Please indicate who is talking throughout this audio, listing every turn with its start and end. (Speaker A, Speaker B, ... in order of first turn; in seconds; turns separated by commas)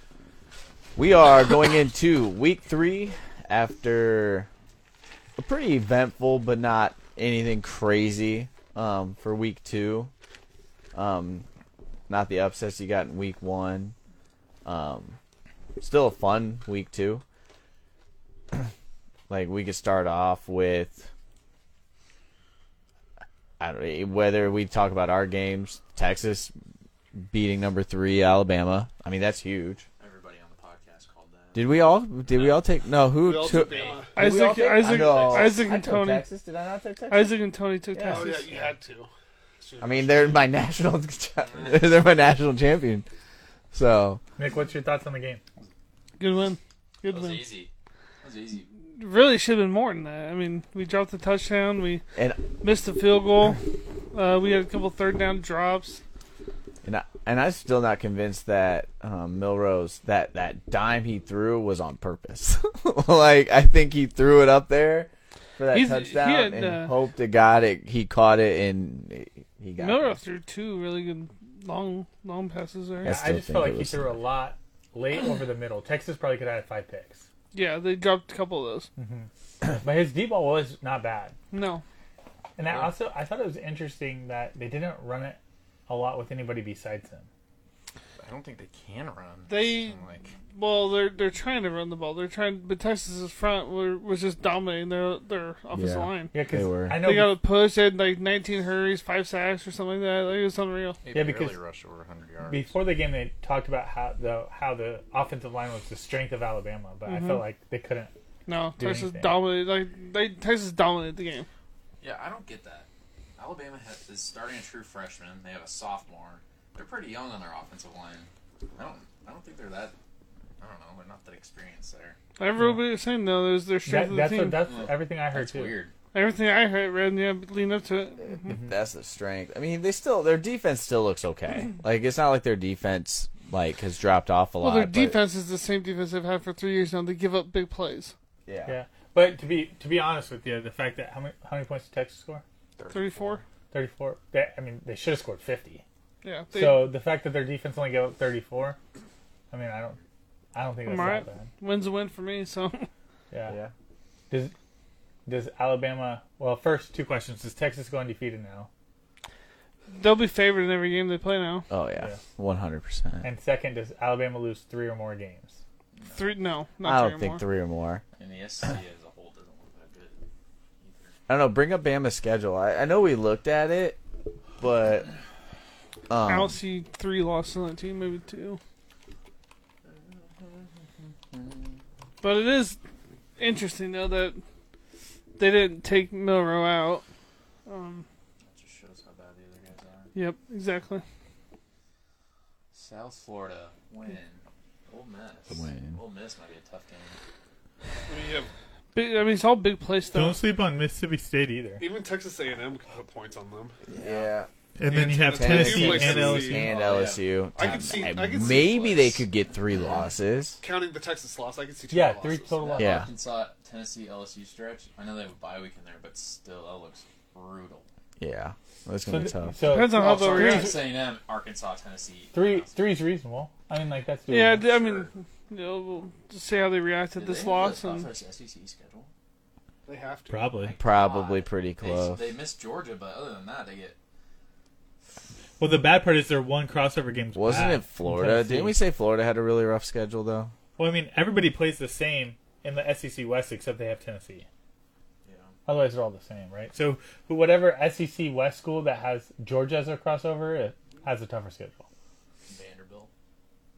Speaker A: 1.0-4.5, Speaker A: 5.4-10.1, Speaker A: 10.9-11.4, Speaker A: 12.1-13.9, Speaker A: 14.7-15.2, Speaker A: 15.8-17.2, Speaker A: 19.3-21.1, Speaker A: 23.6-26.5, Speaker A: 27.3-29.8, Speaker B: 30.0-31.7, Speaker A: 31.5-37.3, Speaker B: 32.2-32.6, Speaker C: 33.2-34.2, Speaker B: 33.4-34.0, Speaker D: 34.2-36.2, Speaker B: 34.8-35.7, Speaker D: 37.1-38.5, Speaker A: 37.9-38.7, Speaker C: 38.1-39.1, Speaker C: 39.6-40.5, Speaker A: 39.8-43.0, Speaker B: 41.4-42.0, Speaker A: 43.7-44.2, Speaker E: 44.4-45.4, Speaker D: 46.2-47.4, Speaker B: 47.1-47.7, Speaker B: 48.2-48.7, Speaker D: 48.9-52.0, Speaker A: 52.2-52.4, Speaker D: 52.6-56.0, Speaker A: 56.8-70.2, Speaker D: 65.7-67.0, Speaker D: 69.8-73.1, Speaker A: 73.0-74.1, Speaker E: 73.0-77.2, Speaker D: 77.5-78.9, Speaker E: 79.0-81.4, Speaker D: 81.5-81.8, Speaker E: 82.6-87.3, Speaker B: 82.7-82.9, Speaker B: 88.2-90.3, Speaker D: 89.5-90.0, Speaker D: 90.5-96.4, Speaker A: 95.7-97.0, Speaker E: 96.3-97.4, Speaker D: 97.0-101.0, Speaker B: 101.0-102.8, Speaker E: 101.1-101.6, Speaker E: 102.5-108.1, Speaker D: 107.0-107.4, Speaker D: 108.5-111.5, Speaker E: 108.8-109.4, Speaker B: 112.0-120.0, Speaker B: 120.6-122.2, Speaker D: 122.4-124.7, Speaker E: 122.6-122.9, Speaker E: 123.8-125.7, Speaker B: 124.7-125.9, Speaker D: 126.1-128.5, Speaker A: 128.2-135.2, Speaker D: 134.6-138.1, Speaker A: 138.5-138.8, Speaker E: 138.7-142.4, Speaker B: 142.8-143.4, Speaker D: 142.9-143.4, Speaker E: 143.7-145.8, Speaker D: 146.2-146.9, Speaker E: 146.5-148.8, Speaker E: 149.5-150.0, Speaker E: 150.5-151.5, Speaker D: 150.8-152.9, Speaker E: 153.3-153.6, Speaker A: 153.5-153.7, Speaker E: 155.3-158.7, Speaker D: 159.9-161.7, Speaker A: 161.7-163.3, Speaker E: 163.2-165.6, Speaker B: 165.9-166.3, Speaker D: 166.1-167.4, Speaker A: 166.8-168.0, Speaker B: 168.2-170.2, Speaker B: 170.8-171.2, Speaker A: 171.3-174.0, Speaker A: 174.6-175.1, Speaker A: 176.1-176.6, Speaker D: 176.3-178.6, Speaker B: 179.8-181.8, Speaker D: 182.2-182.8, Speaker D: 183.4-184.4, Speaker D: 185.4-187.0, Speaker D: 187.7-188.1, Speaker B: 188.4-190.1, Speaker D: 190.1-191.0, Speaker B: 192.7-197.2, Speaker A: 195.5-196.0, Speaker C: 198.1-198.5, Speaker D: 198.9-200.4, Speaker E: 200.1-201.9, Speaker C: 201.8-204.2, Speaker A: 203.9-204.5, Speaker E: 204.8-206.7, Speaker C: 204.8-209.2, Speaker A: 205.2-210.6, Speaker B: 206.7-209.2, Speaker C: 210.6-212.8, Speaker E: 211.9-213.0, Speaker B: 212.6-217.9, Speaker A: 212.8-213.1, Speaker A: 218.2-219.6, Speaker E: 219.1-220.8, Speaker D: 219.6-220.8, Speaker B: 219.9-222.8, Speaker E: 222.3-224.7, Speaker D: 224.3-228.1, Speaker B: 227.2-229.1, Speaker C: 229.8-230.5, Speaker E: 230.3-230.8, Speaker B: 230.6-234.0, Speaker A: 230.8-232.3, Speaker E: 235.6-238.8, Speaker A: 237.3-240.5, Speaker E: 240.8-244.5, Speaker B: 245.2-245.6, Speaker E: 245.7-251.9, Speaker B: 252.5-253.1